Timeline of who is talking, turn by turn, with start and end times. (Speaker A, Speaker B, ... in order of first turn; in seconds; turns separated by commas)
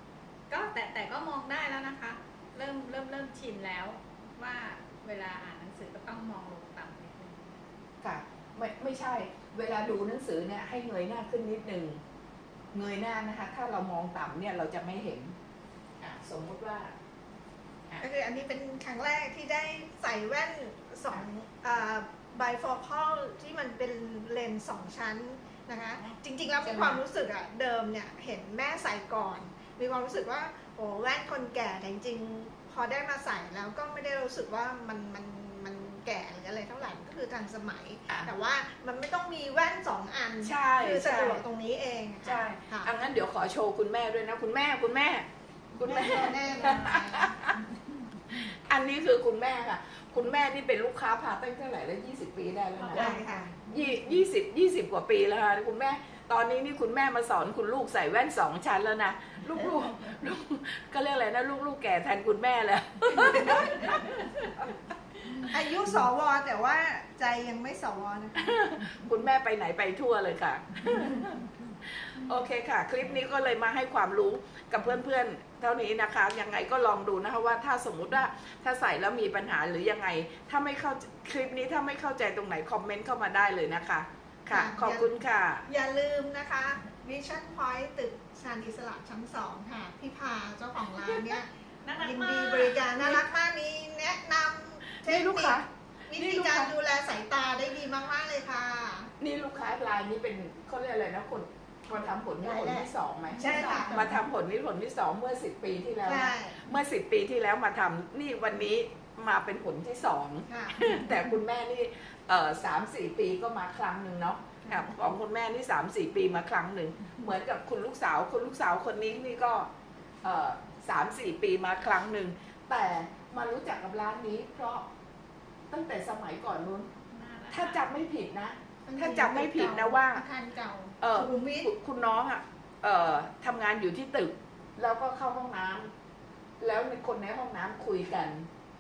Speaker A: 0.5-7.6, Speaker B: 8.0-12.0, Speaker B: 12.7-15.3, Speaker B: 16.0-16.9, Speaker C: 18.0-42.9, Speaker B: 26.6-27.0, Speaker B: 40.4-41.4, Speaker B: 42.2-47.6, Speaker C: 45.8-47.4, Speaker B: 48.3-64.3, Speaker A: 52.8-53.3, Speaker C: 52.9-53.5, Speaker A: 63.3-64.3, Speaker C: 65.5-68.5, Speaker B: 68.4-71.5, Speaker B: 72.0-85.7, Speaker C: 84.5-85.1, Speaker C: 85.7-99.1, Speaker A: 91.0-92.9, Speaker B: 94.9-96.7, Speaker B: 99.2-119.7, Speaker C: 102.4-104.2, Speaker C: 106.0-106.6, Speaker C: 110.5-111.2, Speaker C: 114.7-114.9, Speaker B: 120.2-124.9, Speaker B: 125.7-126.9, Speaker A: 127.1-127.8, Speaker B: 127.5-130.2, Speaker C: 128.9-131.7, Speaker B: 131.0-135.9, Speaker B: 136.6-138.5